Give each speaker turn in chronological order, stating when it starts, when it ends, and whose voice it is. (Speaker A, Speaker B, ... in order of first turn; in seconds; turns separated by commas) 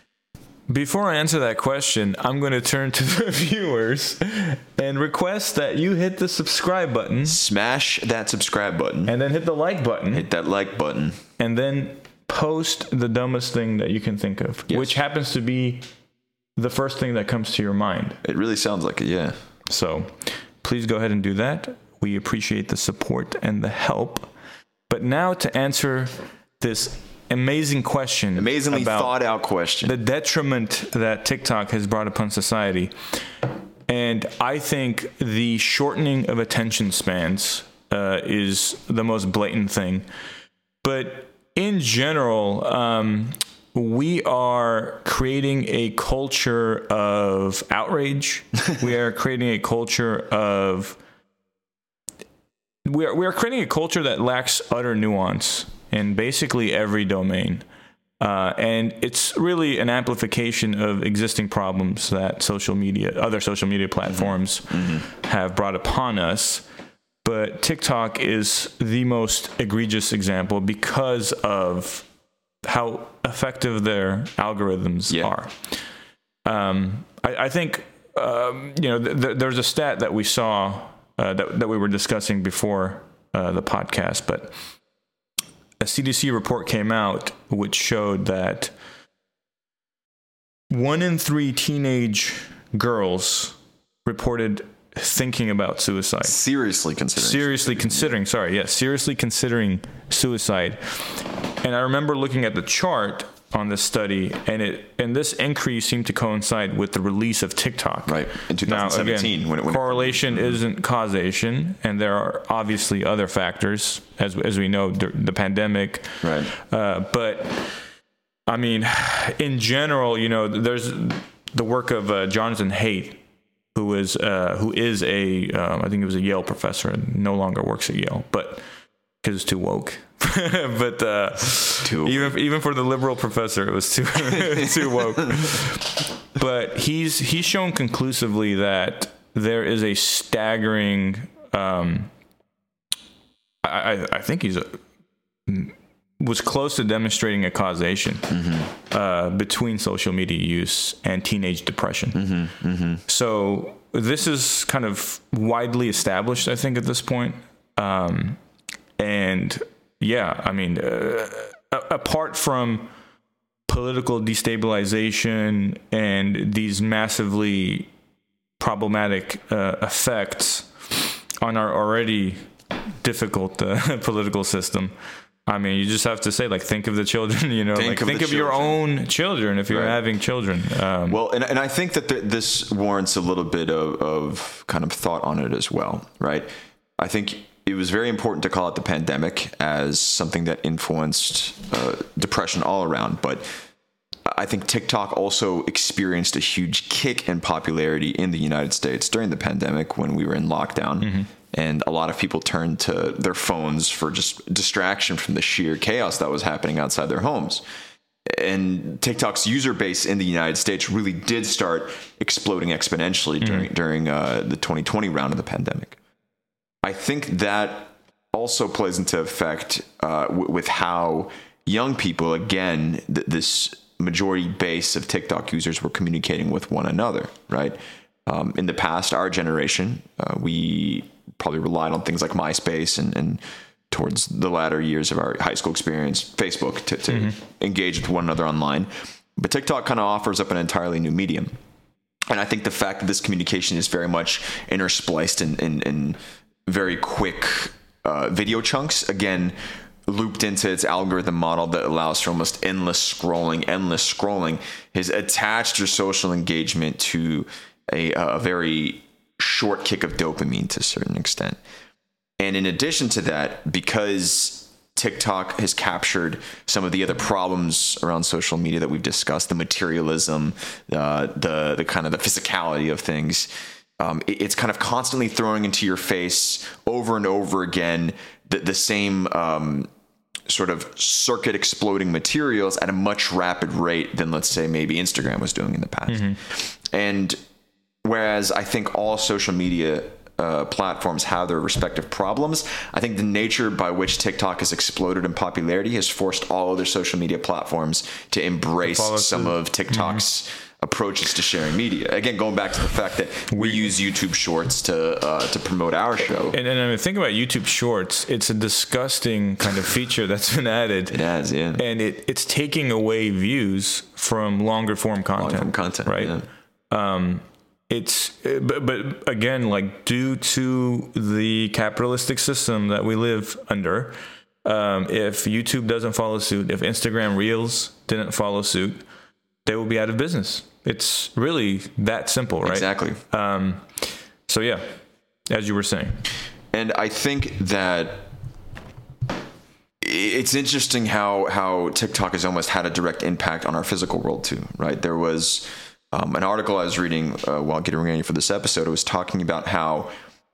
Speaker A: 0.7-7.4, Speaker B: 7.3-9.1, Speaker A: 9.1-10.3, Speaker B: 10.1-11.2, Speaker A: 11.4-15.8, Speaker B: 14.7-15.0, Speaker A: 16.6-18.2, Speaker B: 18.2-19.4, Speaker A: 19.7-24.3, Speaker A: 24.9-29.1, Speaker B: 28.4-29.9, Speaker A: 29.8-32.9, Speaker A: 33.9-40.1, Speaker A: 40.8-51.0, Speaker A: 52.9-57.6, Speaker A: 58.2-66.7, Speaker B: 64.1-65.0, Speaker A: 67.2-72.1, Speaker A: 72.6-75.8, Speaker A: 76.5-84.5, Speaker A: 85.8-88.7, Speaker A: 90.7-96.3, Speaker B: 96.2-98.1, Speaker A: 97.2-117.8, Speaker B: 108.1-110.6, Speaker B: 116.2-116.5, Speaker A: 118.5-123.2, Speaker A: 123.8-128.6, Speaker A: 129.2-142.1, Speaker B: 131.8-132.4, Speaker B: 134.4-134.7, Speaker A: 143.6-144.8, Speaker A: 145.5-152.2, Speaker B: 148.3-148.7, Speaker B: 152.1-153.0, Speaker A: 153.1-158.4, Speaker A: 159.0-162.9, Speaker A: 163.7-167.9, Speaker A: 168.6-174.9, Speaker A: 175.5-181.2, Speaker B: 177.8-178.8, Speaker B: 179.7-180.0, Speaker B: 181.1-186.5, Speaker B: 187.0-193.4, Speaker B: 194.3-207.6, Speaker A: 201.0-201.3, Speaker B: 208.3-216.0, Speaker A: 213.4-213.7, Speaker B: 216.8-241.5, Speaker A: 237.1-237.3, Speaker B: 242.3-249.6, Speaker B: 250.1-261.6, Speaker B: 262.4-279.9, Speaker B: 280.5-287.4, Speaker A: 286.1-286.4, Speaker B: 288.0-306.6, Speaker A: 298.8-300.2, Speaker A: 303.5-303.9, Speaker A: 306.5-311.2, Speaker B: 311.1-311.8, Speaker A: 311.8-316.4, Speaker B: 315.4-316.5, Speaker A: 316.9-329.0, Speaker A: 329.6-334.8, Speaker B: 332.6-333.2, Speaker A: 335.5-336.2, Speaker B: 336.7-338.3, Speaker B: 340.0-350.1